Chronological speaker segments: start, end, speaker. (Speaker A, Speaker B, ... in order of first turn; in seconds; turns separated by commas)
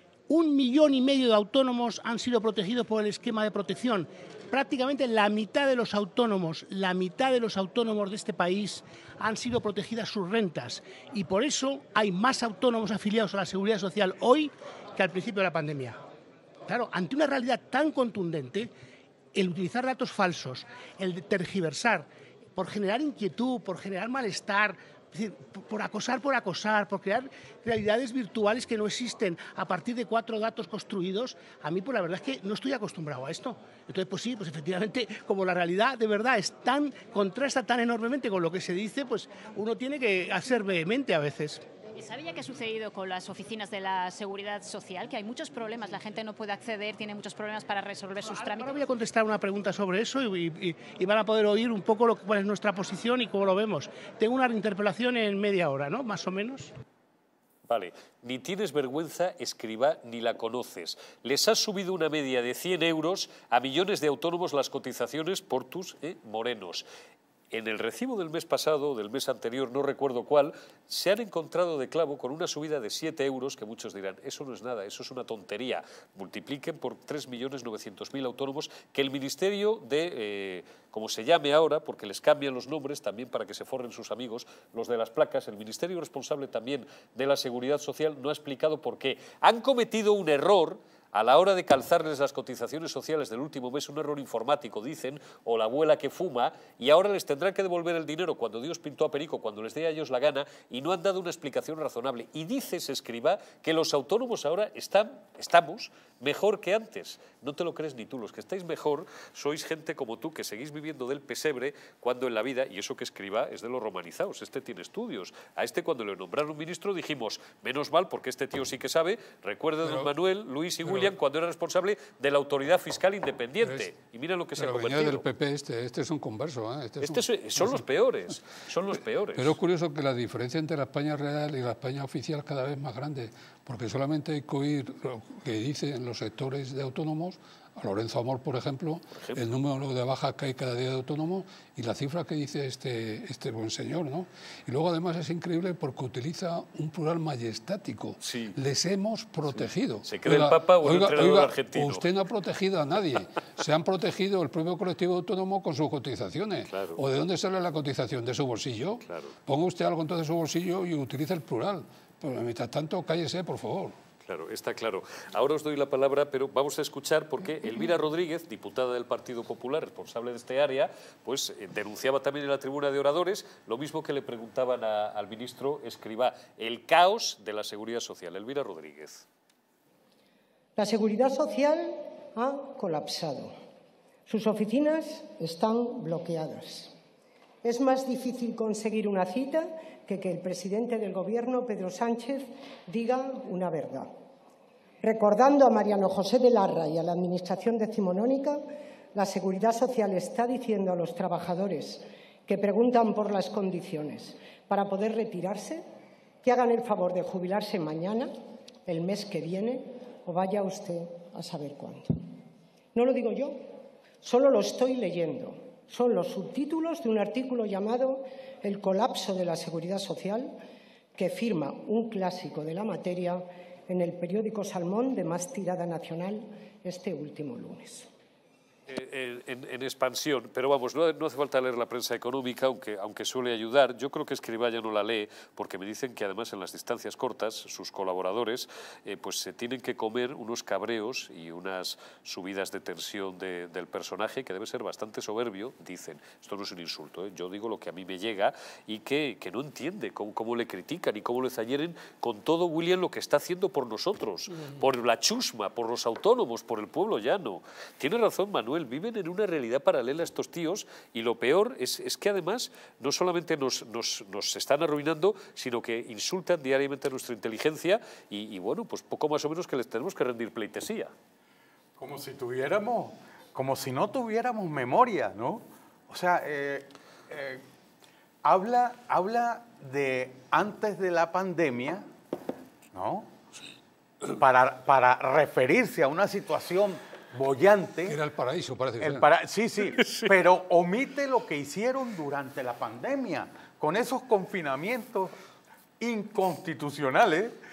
Speaker A: 0.3-16.0, Speaker A: 16.7-18.7, Speaker A: 19.3-41.6, Speaker B: 42.0-48.8, Speaker A: 48.2-56.7, Speaker C: 57.7-66.8, Speaker C: 67.5-125.2, Speaker D: 119.8-120.1, Speaker D: 120.8-121.1, Speaker D: 123.6-123.9, Speaker D: 124.6-127.8, Speaker C: 127.0-129.6, Speaker D: 129.3-164.0, Speaker C: 139.2-139.5, Speaker C: 148.2-148.6, Speaker C: 149.6-152.1, Speaker C: 156.7-157.0, Speaker C: 159.1-159.3, Speaker C: 164.2-179.2, Speaker E: 180.8-183.5, Speaker E: 184.3-186.9, Speaker E: 187.6-194.1, Speaker E: 195.0-205.8, Speaker E: 206.4-208.3, Speaker E: 208.9-212.2, Speaker E: 212.9-213.7, Speaker E: 214.2-220.6, Speaker E: 221.2-228.1, Speaker C: 228.9-271.1, Speaker F: 272.0-277.6, Speaker F: 278.4-282.1, Speaker F: 282.9-283.3, Speaker F: 284.3-288.2, Speaker D: 288.1-289.2, Speaker F: 289.0-295.3, Speaker F: 296.0-297.6